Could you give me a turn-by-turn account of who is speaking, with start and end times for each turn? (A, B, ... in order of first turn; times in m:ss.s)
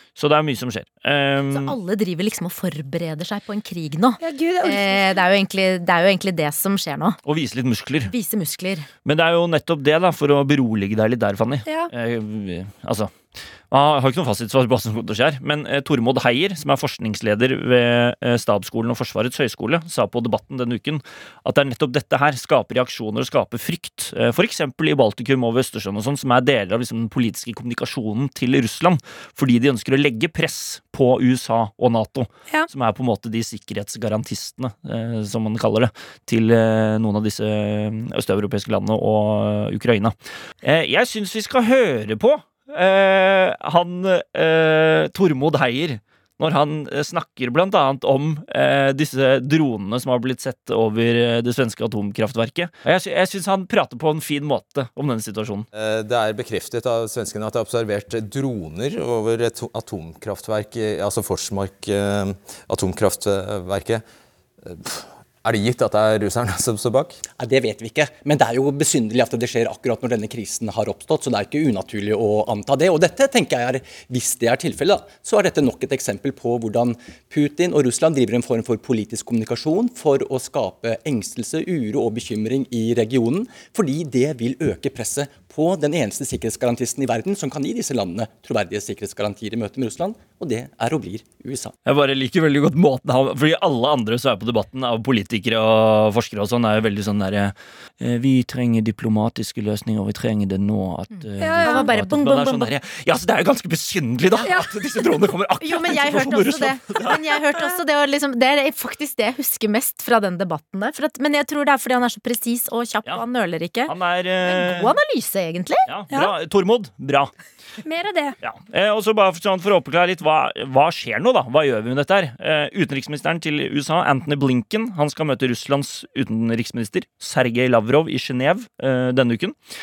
0:00.2-0:01.8 A
0:01.5-0:07.2 B
0:04.2-0:05.2 C
0:07.2-0:08.1 A
0:08.1-0:08.9 B
0:09.0-0:13.1 A
0:11.7-0:11.9 C
0:13.7-0:55.7 A
0:55.7-1:04.0 D
1:04.6-1:07.2 D
1:07.4-1:31.8 E
1:31.8-1:47.4 A
1:41.4-1:41.9 C
1:41.6-1:42.7 B
1:44.4-1:44.7 C
1:45.6-1:55.9 B
1:53.9-1:55.0 A
1:55.9-1:57.3 A
1:57.8-1:58.4 C
1:58.4-2:09.6 A